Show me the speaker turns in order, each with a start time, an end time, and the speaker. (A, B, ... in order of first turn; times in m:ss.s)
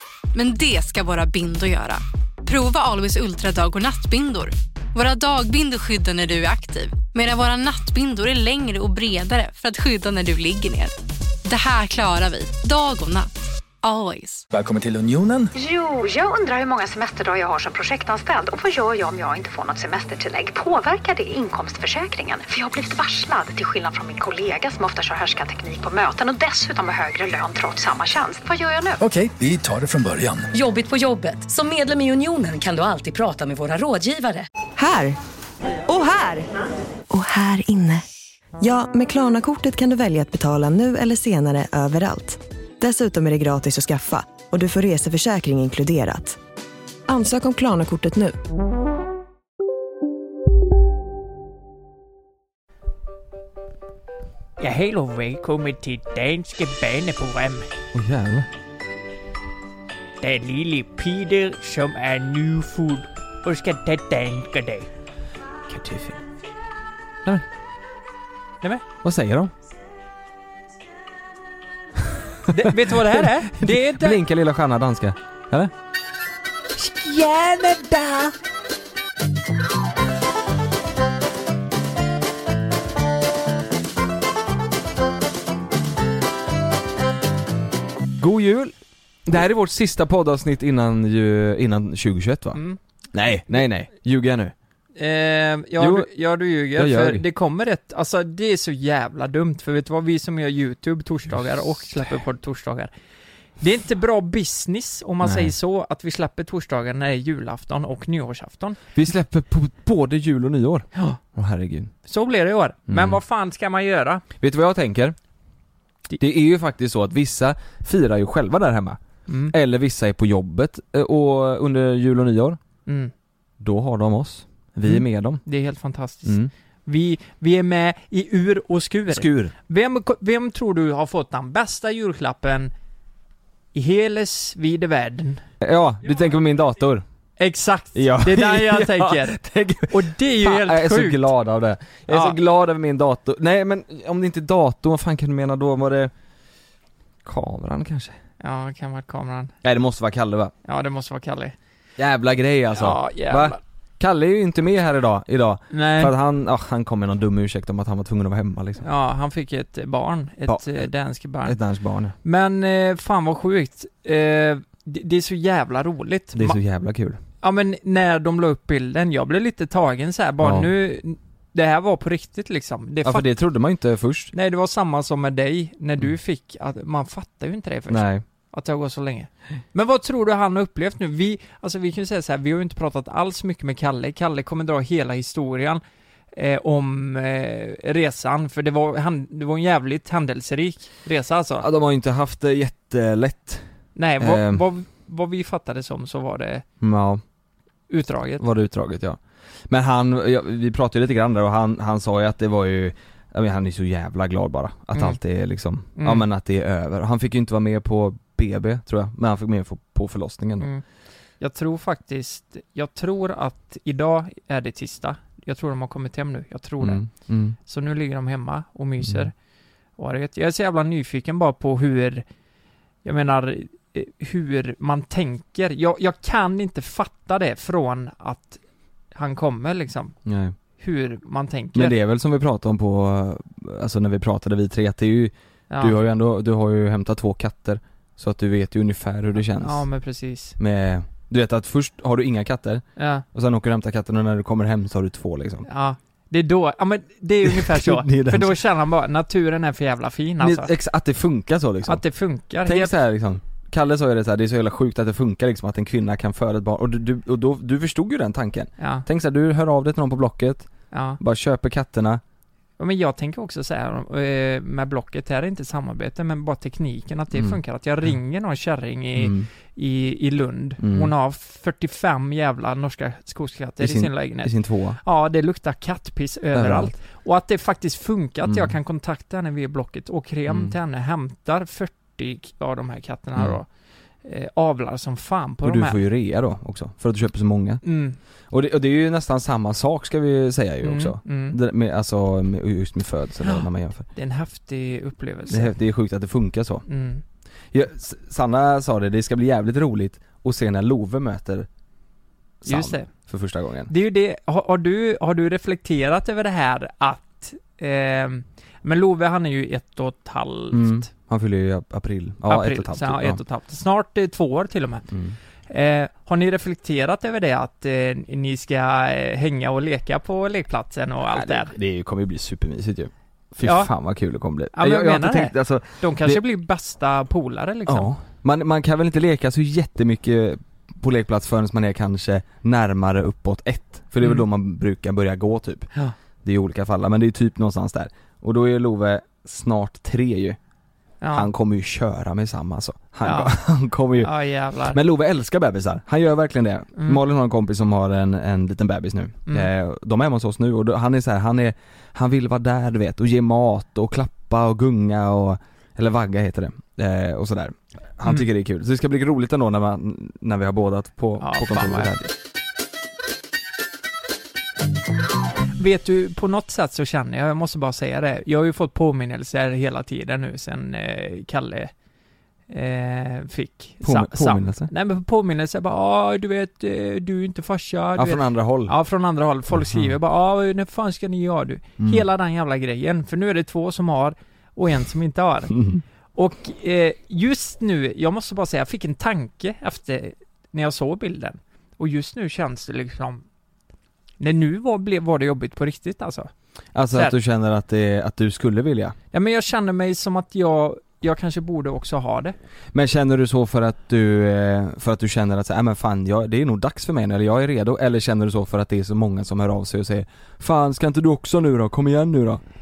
0:00.3-0:13.3 A
0:13.8-0:14.4 A
0:14.5-0:15.5 B
0:15.6-0:29.0 C
0:29.0-0:30.5 B
0:30.5-0:34.5 D
0:34.8-0:35.2 E
0:35.9-0:36.5 E
0:37.1-0:38.0 E
0:38.6-0:46.4 E
0:47.1-0:48.4 E
0:54.6-0:57.7 F
0:57.9-0:58.5 G
1:00.2-1:04.9 F
1:05.7-1:06.2 G
1:09.0-1:09.5 G
1:12.5-1:14.2 F
1:12.5-1:15.7 G
1:16.8-1:18.3 F
1:28.2-1:32.6 G
1:33.1-1:34.5 G
1:35.0-1:42.9 F
1:35.8-1:36.1 G
1:36.8-1:37.2 G
1:43.6-1:48.8 F
1:45.2-1:45.5 G
1:49.0-1:51.9 G
1:52.0-1:54.2 F
1:52.9-1:53.2 G
1:54.4-1:55.2 G
1:56.2-1:59.0 G
1:59.3-1:59.5 F
1:59.5-2:02.6 G
2:02.9-2:03.1 F
2:03.6-2:05.4 G
2:04.9-2:12.7 F
2:06.2-2:06.5 G
2:09.1-2:09.5 G
2:13.7-2:15.4 F
2:15.6-2:17.0 G
2:17.4-2:19.4 F
2:18.0-2:26.1 G
2:19.9-2:21.3 F
2:22.1-2:22.4 F
2:27.2-2:28.2 G
2:28.4-2:29.5 F
2:29.6-2:30.5 G
2:30.7-2:31.6 F
2:32.0-2:38.9 G
2:32.7-2:33.6 F
2:35.7-2:36.1 F
2:38.8-2:41.6 F
2:40.5-2:40.8 G
2:41.4-2:42.2 G
2:42.2-2:46.6 F
2:46.3-2:47.2 G
2:47.4-2:53.3 F
2:50.4-2:50.7 G
2:53.0-2:54.3 G
2:54.3-3:05.8 F
2:57.9-2:58.2 G
3:06.3-3:11.7 F
3:11.6-3:13.7 G
3:14.0-3:16.6 F
3:14.2-3:14.6 G
3:16.8-3:17.2 G
3:17.9-3:18.4 F
3:18.4-3:30.7 G
3:26.0-3:26.2 F
3:31.4-3:37.0 F
3:36.8-3:37.6 G
3:37.7-3:39.3 F
3:39.0-3:39.3 G
3:40.0-3:42.2 F
3:43.0-3:48.6 F
3:49.1-3:50.2 F
3:50.3-3:50.6 G
3:50.8-3:52.0 F
3:51.8-3:59.9 G
3:55.7-3:56.0 F
3:59.6-4:00.6 F
4:00.6-4:05.7 G
4:03.0-4:03.2 F
4:05.7-4:10.7 F
4:07.4-4:08.6 G
4:10.4-4:12.0 G
4:11.9-4:13.0 F
4:12.6-4:22.2 G
4:18.8-4:19.0 F
4:20.9-4:21.2 F
4:22.8-4:43.7 F
4:29.2-4:29.5 G
4:30.8-4:31.1 G
4:33.8-4:35.0 G
4:36.5-4:37.0 G
4:38.4-4:38.7 G
4:40.5-4:40.8 G
4:44.2-4:46.0 F
4:45.6-4:47.8 G
4:47.8-4:48.2 F
4:48.5-4:54.1 G
4:50.8-4:51.6 F
4:53.4-4:55.8 F
4:55.5-4:56.8 G
4:56.9-4:57.2 F
4:57.7-5:01.7 G
5:02.6-5:03.9 G
5:02.7-5:03.1 F
5:03.9-5:11.1 F
5:10.7-5:13.4 G
5:12.5-5:15.1 F
5:15.1-5:15.4 G
5:15.7-5:21.7 F
5:21.3-5:26.4 G
5:23.6-5:23.9 F
5:24.7-5:28.1 F
5:27.9-5:35.9 G
5:36.4-5:40.6 G
5:41.2-5:41.5 F
5:41.3-5:44.3 G
5:43.2-5:43.5 F
5:44.2-5:45.0 F
5:44.9-6:02.2 G
6:01.4-6:02.3 F
6:05.8-6:11.9 F
6:12.7-6:25.8 F
6:14.0-6:14.9 G
6:18.2-6:18.9 G
6:19.7-6:20.1 G
6:22.0-6:22.2 G
6:25.7-6:26.0 G
6:26.4-6:33.4 F
6:34.4-6:36.5 F
6:36.9-6:39.2 G
6:39.3-6:42.6 F
6:42.9-6:52.6 G